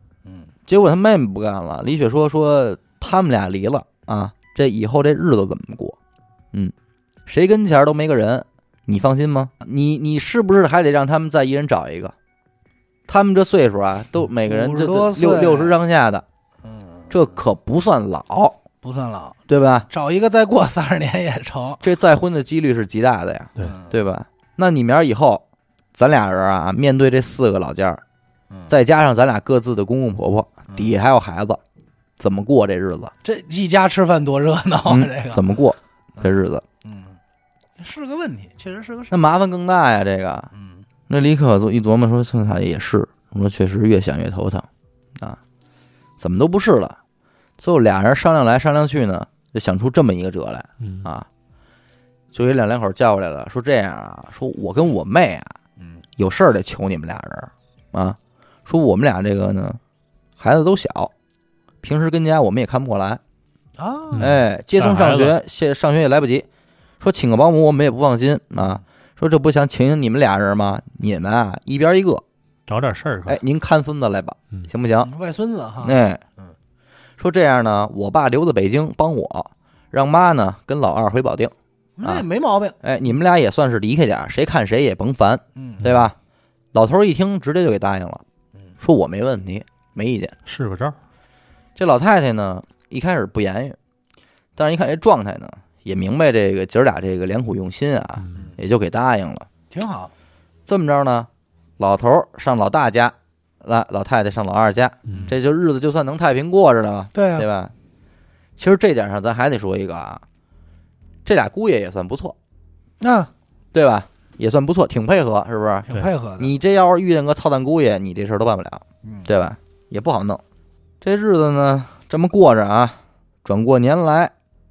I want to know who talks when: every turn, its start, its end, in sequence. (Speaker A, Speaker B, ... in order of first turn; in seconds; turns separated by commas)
Speaker A: 0.2-0.5, Speaker B: 0.7-6.0, Speaker B: 7.2-12.1, Speaker B: 13.1-16.2, Speaker A: 14.4-15.8, Speaker A: 16.6-17.1, Speaker B: 17.1-18.6, Speaker A: 18.8-21.8, Speaker B: 19.5-19.9, Speaker B: 21.8-28.0, Speaker A: 23.6-23.9, Speaker B: 28.7-31.6, Speaker B: 32.2-33.1, Speaker A: 33.2-35.4, Speaker B: 34.9-36.6, Speaker A: 36.8-37.2, Speaker A: 37.8-39.1, Speaker B: 39.1-40.5, Speaker A: 40.5-40.9, Speaker B: 41.1-45.4, Speaker B: 46.2-47.0, Speaker B: 47.6-51.3, Speaker C: 50.8-51.0, Speaker B: 52.3-55.5, Speaker A: 55.8-56.0, Speaker B: 56.2-59.8, Speaker B: 60.4-61.1, Speaker B: 61.8-63.2, Speaker A: 63.8-64.3, Speaker C: 64.1-65.4, Speaker B: 64.2-66.5, Speaker B: 67.0-72.2, Speaker C: 72.7-73.4, Speaker B: 73.3-75.1, Speaker A: 75.0-76.5, Speaker B: 75.8-76.2, Speaker B: 77.2-82.2, Speaker A: 82.0-82.8, Speaker B: 82.8-86.1, Speaker A: 85.5-85.8, Speaker B: 86.7-88.2, Speaker B: 88.8-90.3, Speaker C: 90.5-91.0, Speaker B: 91.8-93.8, Speaker B: 94.5-99.5, Speaker C: 98.2-98.5, Speaker A: 99.7-100.1, Speaker B: 100.7-107.7, Speaker A: 105.1-105.3, Speaker A: 107.1-107.5, Speaker B: 108.6-110.2, Speaker B: 111.2-112.3, Speaker A: 113.0-113.3, Speaker B: 113.7-120.4, Speaker A: 115.8-116.5, Speaker A: 119.0-119.3, Speaker B: 121.0-124.3